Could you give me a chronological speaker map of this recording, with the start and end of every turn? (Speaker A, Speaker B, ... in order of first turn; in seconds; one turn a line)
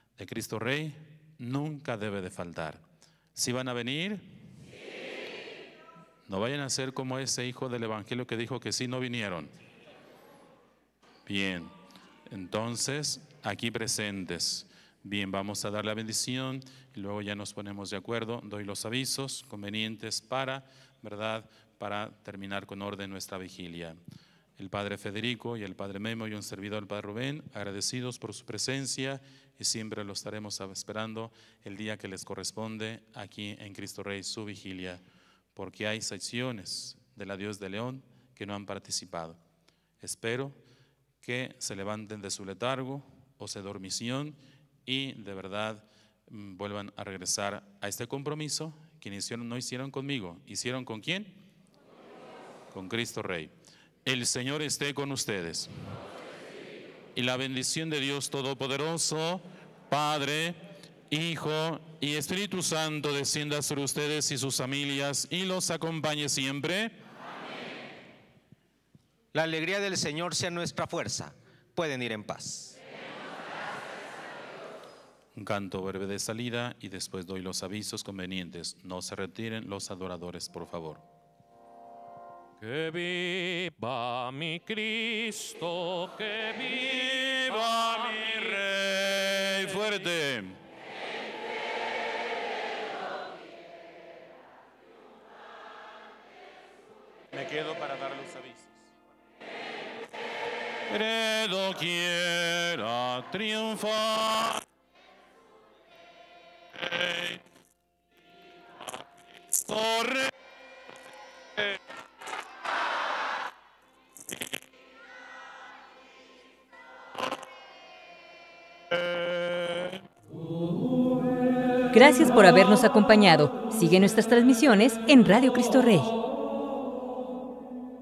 Speaker A: 0.2-2.8
Speaker A: 3.4-4.2
Speaker A: 6.3-9.5
Speaker A: 11.3-11.7
Speaker A: 12.3-24.0
Speaker A: 24.6-35.0
Speaker A: 35.5-39.4
Speaker A: 40.0-40.6
Speaker A: 41.2-51.4
Speaker A: 52.7-53.5
Speaker A: 54.0-55.7
Speaker A: 57.1-67.0
Speaker B: 69.3-72.8
Speaker A: 75.3-81.0
Speaker C: 82.6-87.1
Speaker A: 86.9-90.6
Speaker A: 97.3-98.9
Speaker A: 100.9-104.7
Speaker A: 106.8-107.4
Speaker A: 109.3-110.3
Speaker A: 118.9-120.0
Speaker D: 121.9-126.1